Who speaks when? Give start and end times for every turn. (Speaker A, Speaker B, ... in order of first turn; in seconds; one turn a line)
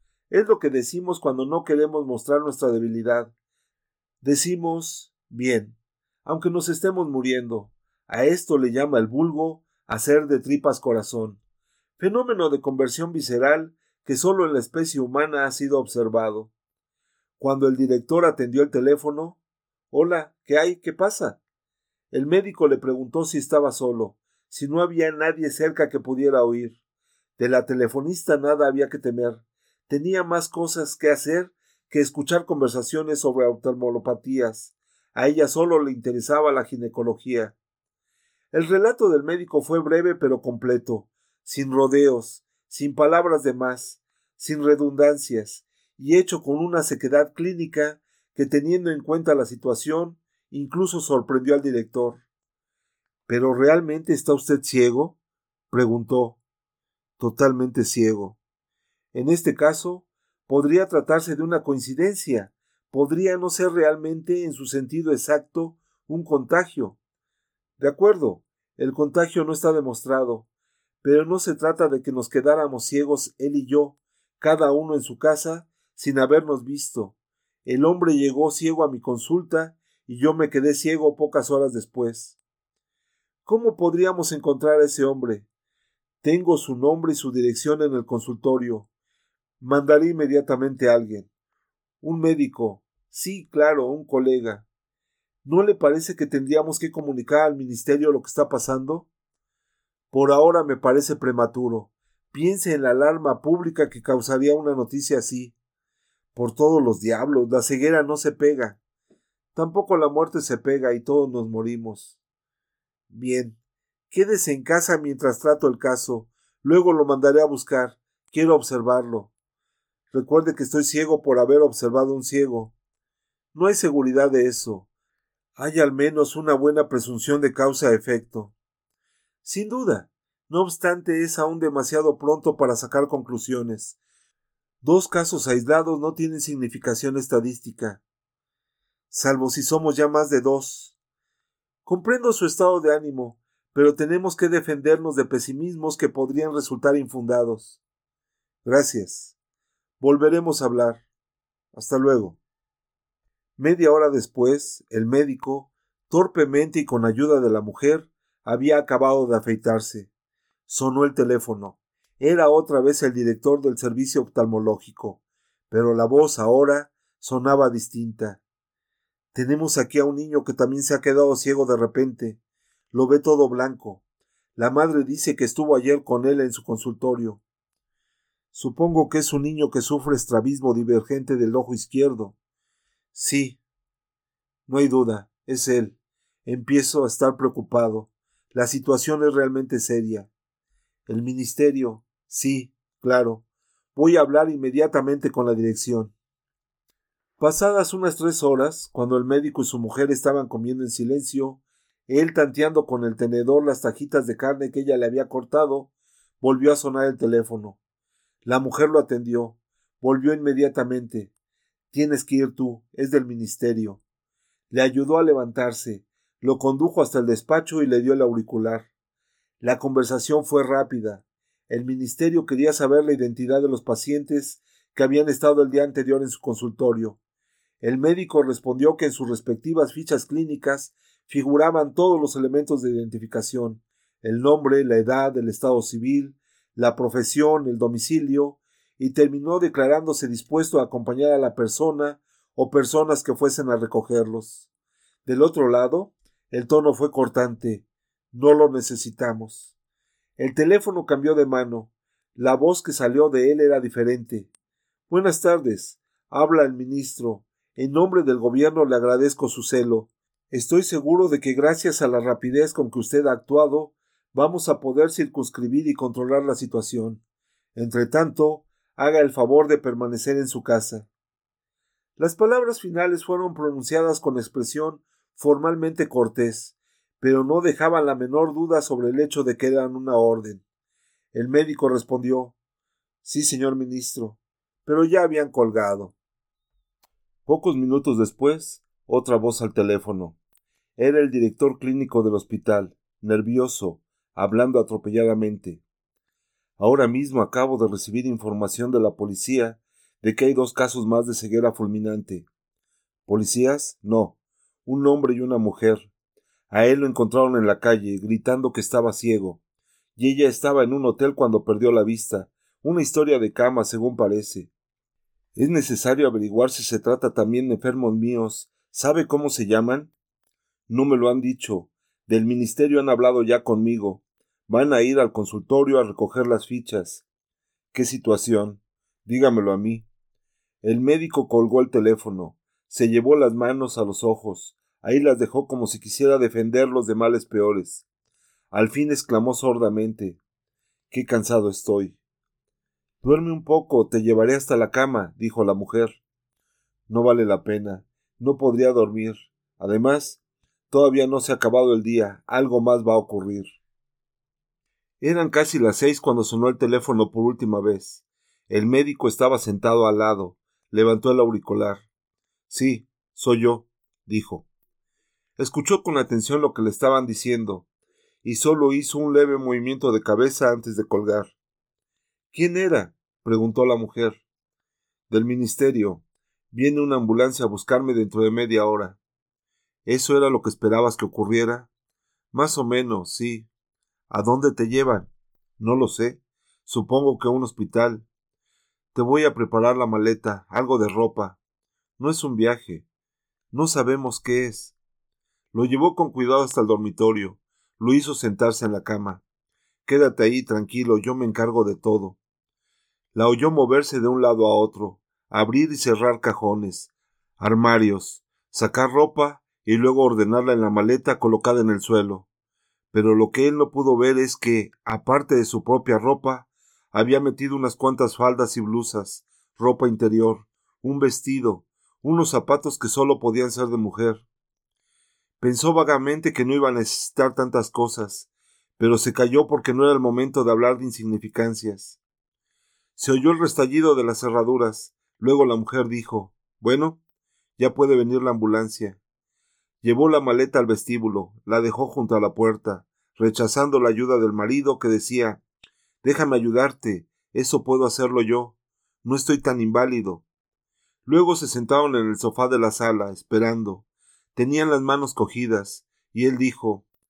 Speaker A: 0.3-3.3
Speaker A: 4.2-11.4
Speaker A: 12.0-16.5
Speaker A: 17.4-19.4
Speaker A: 19.9-21.4
Speaker A: 22.1-26.8
Speaker A: 27.4-37.5
Speaker A: 38.5-52.2
Speaker A: 53.3-55.1
Speaker A: 55.7-56.4
Speaker A: 57.2-58.4
Speaker A: 59.1-67.0
Speaker A: 67.8-70.5
Speaker A: 71.0-77.1
Speaker A: 77.6-82.3
Speaker A: 83.4-85.5
Speaker A: 86.2-88.9
Speaker A: 89.6-91.3
Speaker A: 92.0-94.6
Speaker A: 95.4-99.1
Speaker A: 100.1-105.5
Speaker A: 106.3-108.8
Speaker A: 109.5-112.1
Speaker A: 113.1-113.6
Speaker A: 114.1-119.3
Speaker A: 120.1-122.7
Speaker A: 123.5-124.9
Speaker A: 125.6-128.5
Speaker A: 129.4-133.9
Speaker A: 134.8-138.0
Speaker A: 139.1-140.9
Speaker A: 141.8-147.8
Speaker A: 148.6-149.3
Speaker A: 150.0-151.0
Speaker A: 151.7-152.4
Speaker A: 153.6-160.1
Speaker A: 160.7-168.4
Speaker A: 169.3-172.4
Speaker A: 172.9-174.0
Speaker A: 174.6-177.4
Speaker A: 178.5-182.3
Speaker A: 183.1-183.6
Speaker A: 184.7-190.3
Speaker A: 191.1-193.4
Speaker A: 193.9-196.1
Speaker A: 197.4-207.8
Speaker A: 208.4-211.3
Speaker A: 211.9-214.0
Speaker A: 214.7-218.8
Speaker A: 219.6-227.2
Speaker A: 227.8-244.6
Speaker A: 245.2-249.7
Speaker A: 250.4-254.5
Speaker A: 255.1-267.2
Speaker A: 267.7-271.1
Speaker A: 272.2-280.6
Speaker A: 281.3-282.5
Speaker A: 283.2-286.1
Speaker A: 287.5-290.4
Speaker A: 291.0-295.8
Speaker A: 296.8-302.5
Speaker A: 303.3-306.1
Speaker A: 306.7-309.6
Speaker A: 310.2-314.7
Speaker A: 315.5-320.1
Speaker A: 320.9-327.2
Speaker A: 327.9-330.1
Speaker A: 330.8-338.0
Speaker A: 338.7-340.4
Speaker A: 341.1-342.2
Speaker A: 343.2-346.2
Speaker A: 347.1-353.8
Speaker A: 355.2-362.0
Speaker A: 362.7-364.6
Speaker A: 365.6-367.8
Speaker A: 368.4-371.5
Speaker A: 372.5-374.4
Speaker A: 375.3-379.2
Speaker A: 380.1-381.9
Speaker A: 382.5-383.7
Speaker A: 384.3-388.2
Speaker A: 389.1-391.6
Speaker A: 392.2-393.0
Speaker A: 393.7-394.9
Speaker A: 395.7-399.4
Speaker A: 400.0-402.4
Speaker A: 403.3-412.5
Speaker A: 413.1-424.4
Speaker A: 425.6-432.2
Speaker A: 433.2-437.2
Speaker A: 437.8-439.2
Speaker A: 440.0-445.6
Speaker A: 446.2-450.4
Speaker A: 451.2-454.0
Speaker A: 454.5-457.0